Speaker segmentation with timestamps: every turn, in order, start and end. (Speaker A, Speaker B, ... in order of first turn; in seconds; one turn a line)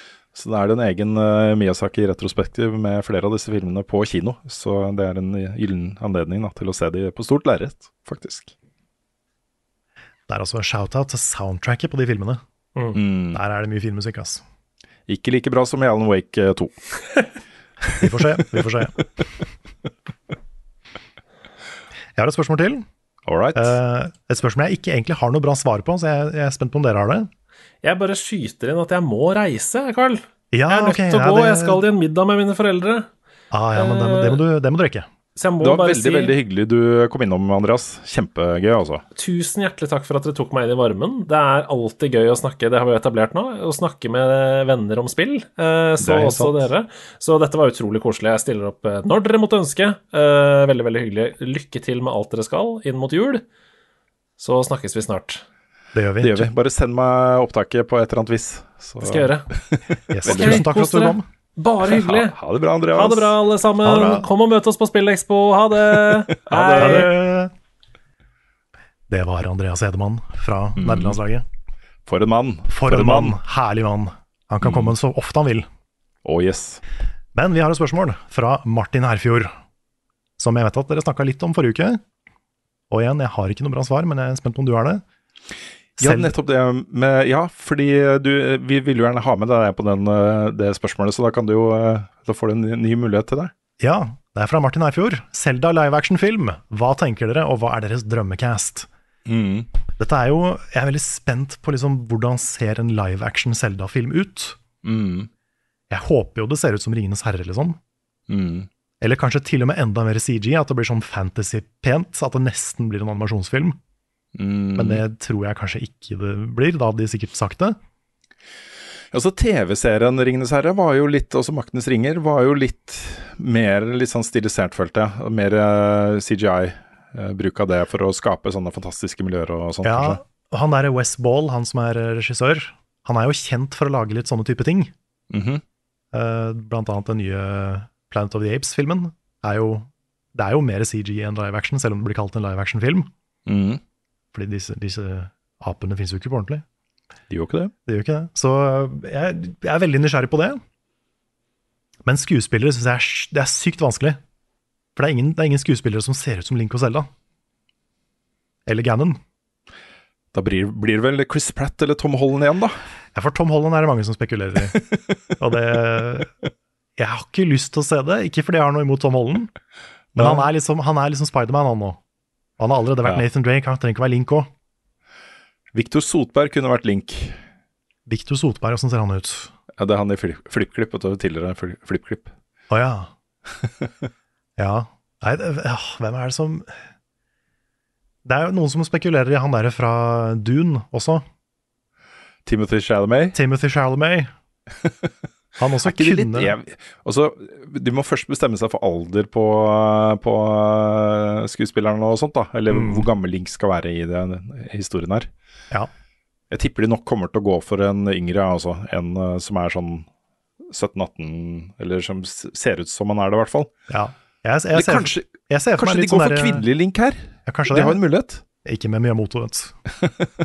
Speaker A: 0.3-8.5
Speaker B: 10.3-12.4
Speaker A: 12.9-13.4
Speaker B: 13.3-14.4
Speaker A: 15.1-16.8
Speaker B: 18.0-19.1
Speaker B: 22.1-22.9
Speaker A: 23.3-23.8
Speaker B: 23.6-27.3
Speaker C: 27.8-33.1
Speaker B: 30.5-31.8
Speaker B: 33.5-35.1
Speaker C: 33.8-34.4
Speaker C: 35.4-36.4
Speaker A: 35.6-39.0
Speaker C: 39.2-53.4
Speaker A: 46.0-46.7
Speaker C: 54.4-55.4
Speaker B: 55.9-56.5
Speaker A: 56.2-60.7
Speaker C: 59.0-59.5
Speaker B: 60.1-61.2
Speaker C: 60.2-62.4
Speaker A: 61.9-63.4
Speaker C: 63.0-67.1
Speaker B: 63.8-64.3
Speaker A: 66.5-67.1
Speaker B: 66.8-67.5
Speaker B: 69.1-71.5
Speaker A: 70.8-71.2
Speaker A: 72.1-73.4
Speaker B: 72.7-75.7
Speaker A: 74.6-74.9
Speaker A: 76.2-76.8
Speaker B: 77.3-79.5
Speaker B: 80.4-82.0
Speaker B: 82.9-85.0
Speaker B: 86.0-86.3
Speaker A: 86.0-93.5
Speaker B: 93.8-98.9
Speaker A: 99.3-99.7
Speaker B: 100.0-104.6
Speaker A: 104.8-105.3
Speaker B: 105.9-107.8
Speaker A: 108.3-108.7
Speaker B: 109.0-113.8
Speaker A: 114.3-115.0
Speaker B: 114.8-117.8
Speaker A: 119.1-130.2
Speaker B: 129.8-134.9
Speaker A: 135.3-135.6
Speaker B: 136.1-143.1
Speaker A: 143.5-143.8
Speaker B: 144.3-146.6
Speaker A: 147.3-147.7
Speaker B: 147.9-150.6
Speaker B: 152.1-154.2
Speaker B: 155.0-157.1
Speaker B: 158.7-159.2
Speaker A: 160.3-162.8
Speaker B: 163.2-164.8
Speaker A: 164.8-165.2
Speaker B: 165.4-166.3
Speaker B: 167.0-169.5
Speaker A: 170.1-170.5
Speaker B: 170.2-172.0
Speaker B: 172.6-174.5
Speaker A: 175.7-177.4
Speaker B: 178.1-179.5
Speaker A: 179.8-182.3
Speaker B: 182.7-183.1
Speaker A: 183.6-184.1
Speaker B: 184.6-186.7
Speaker B: 188.2-191.2
Speaker A: 192.5-193.4
Speaker B: 193.3-194.3
Speaker A: 194.8-195.1
Speaker B: 195.6-196.6
Speaker A: 195.8-205.3
Speaker B: 202.7-203.1
Speaker A: 206.5-210.1
Speaker A: 210.7-213.7
Speaker B: 213.9-216.7
Speaker A: 214.7-218.4
Speaker B: 217.5-218.0
Speaker B: 218.6-219.8